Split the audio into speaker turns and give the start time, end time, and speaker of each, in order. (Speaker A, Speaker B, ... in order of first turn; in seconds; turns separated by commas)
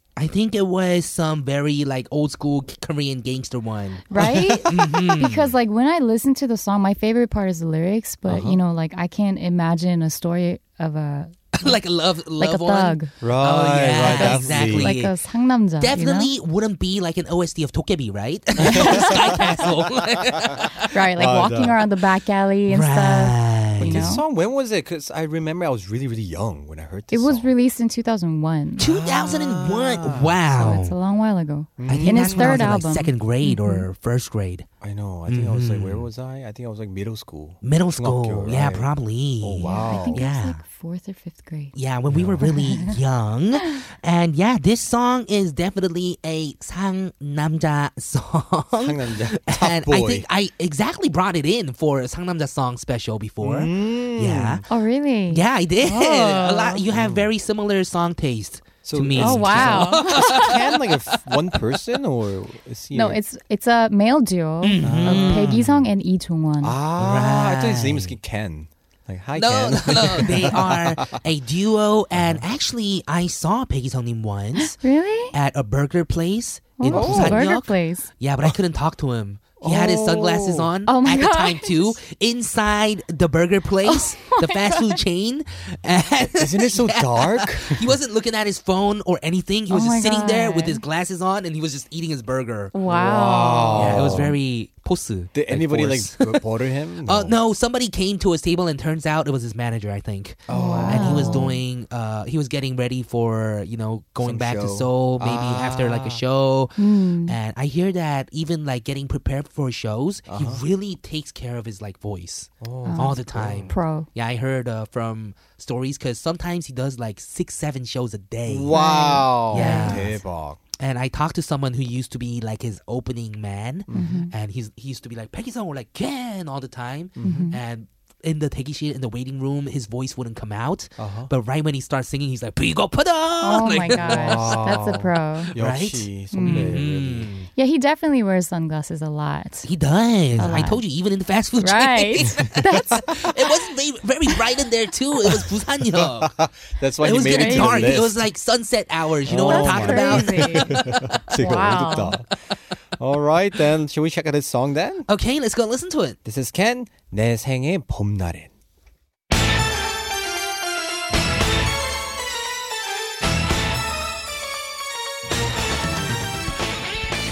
Speaker A: 0.1-5.5, Speaker B: 4.1-11.8, Speaker C: 4.2-4.6, Speaker A: 11.6-15.1, Speaker B: 12.4-13.1, Speaker C: 13.2-14.9, Speaker B: 14.1-16.3, Speaker A: 15.8-20.9, Speaker B: 18.6-19.6, Speaker C: 18.6-19.7, Speaker C: 20.2-20.5, Speaker B: 20.9-24.2, Speaker C: 21.1-21.8, Speaker A: 22.7-24.1, Speaker C: 23.8-27.5, Speaker B: 27.1-28.9, Speaker A: 28.8-30.9, Speaker C: 28.8-30.4, Speaker B: 30.5-33.9, Speaker C: 31.8-32.7, Speaker A: 31.9-34.6, Speaker C: 34.8-38.9, Speaker A: 35.3-36.1, Speaker A: 37.6-40.6, Speaker C: 39.4-40.2, Speaker B: 39.6-41.7, Speaker A: 41.7-54.6, Speaker C: 42.1-42.4, Speaker B: 42.4-43.0, Speaker C: 48.7-50.2, Speaker C: 53.4-54.6, Speaker B: 54.7-55.4, Speaker A: 55.3-60.6, Speaker C: 55.8-57.3, Speaker C: 58.8-63.2, Speaker B: 59.1-60.6, Speaker B: 62.9-66.8, Speaker A: 64.6-65.6, Speaker C: 64.8-65.8, Speaker C: 66.6-71.2, Speaker A: 67.0-68.2, Speaker A: 69.3-74.8, Speaker C: 72.1-72.4, Speaker B: 74.6-75.3, Speaker A: 75.3-92.7, Speaker B: 76.8-78.1, Speaker C: 76.9-77.5, Speaker C: 79.6-80.7, Speaker B: 80.9-82.0, Speaker B: 83.8-85.0, Speaker C: 86.3-87.9, Speaker B: 89.7-90.8, Speaker B: 92.7-94.1, Speaker C: 92.8-94.3, Speaker A: 93.7-96.4, Speaker C: 95.3-97.3, Speaker A: 97.0-118.8, Speaker C: 100.5-101.5, Speaker B: 100.5-101.5, Speaker C: 104.2-106.2, Speaker B: 106.8-107.3, Speaker C: 110.3-110.6, Speaker C: 112.6-113.7, Speaker B: 112.8-114.1, Speaker C: 118.5-120.6, Speaker B: 118.7-120.2, Speaker A: 119.5-120.2, Speaker A: 120.8-134.8, Speaker C: 123.9-124.2, Speaker B: 123.9-124.3, Speaker C: 127.2-127.5, Speaker B: 127.2-127.6, Speaker C: 131.0-131.3, Speaker B: 133.4-135.5, Speaker C: 134.0-137.3, Speaker A: 135.5-137.5, Speaker B: 136.3-136.8, Speaker B: 137.5-139.7, Speaker A: 139.6-146.3, Speaker B: 140.4-140.8, Speaker C: 140.4-140.6, Speaker B: 141.6-143.7, Speaker C: 145.9-148.2, Speaker A: 147.0-151.1, Speaker B: 147.2-148.0, Speaker C: 149.2-152.2, Speaker B: 149.4-152.2, Speaker C: 153.0-155.1, Speaker A: 155.1-156.2, Speaker C: 156.2-158.5